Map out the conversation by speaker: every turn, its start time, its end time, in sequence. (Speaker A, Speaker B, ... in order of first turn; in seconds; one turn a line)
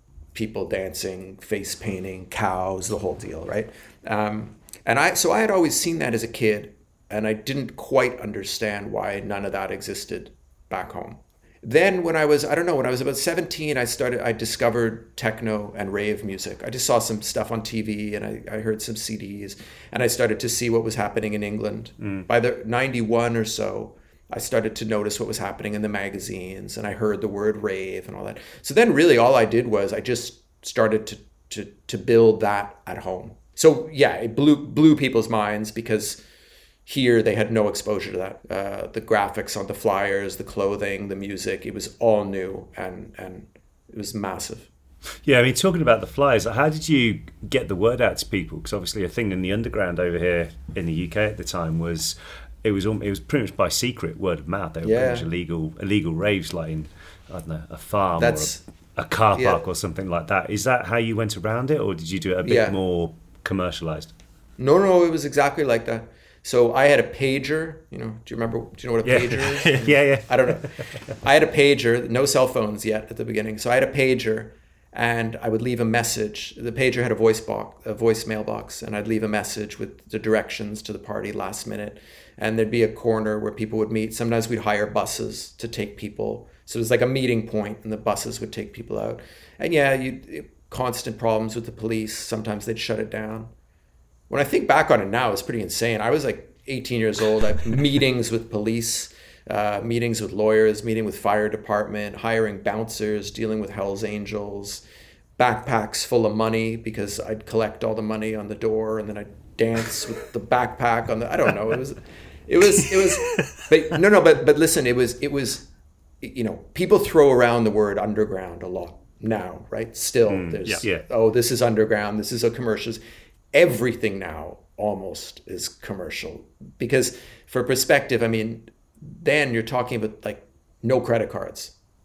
Speaker A: 0.3-36.2
Speaker B: 22.0-22.3
Speaker A: 36.9-44.7
Speaker B: 45.2-64.1
Speaker A: 54.8-55.3
Speaker A: 58.2-58.6
Speaker A: 59.4-59.6
Speaker A: 62.4-62.8
Speaker A: 64.6-70.7
Speaker B: 69.0-71.0
Speaker A: 71.2-93.5
Speaker A: 94.3-104.8
Speaker A: 105.4-115.7
Speaker A: 116.2-123.0
Speaker B: 120.3-121.1
Speaker A: 123.5-131.7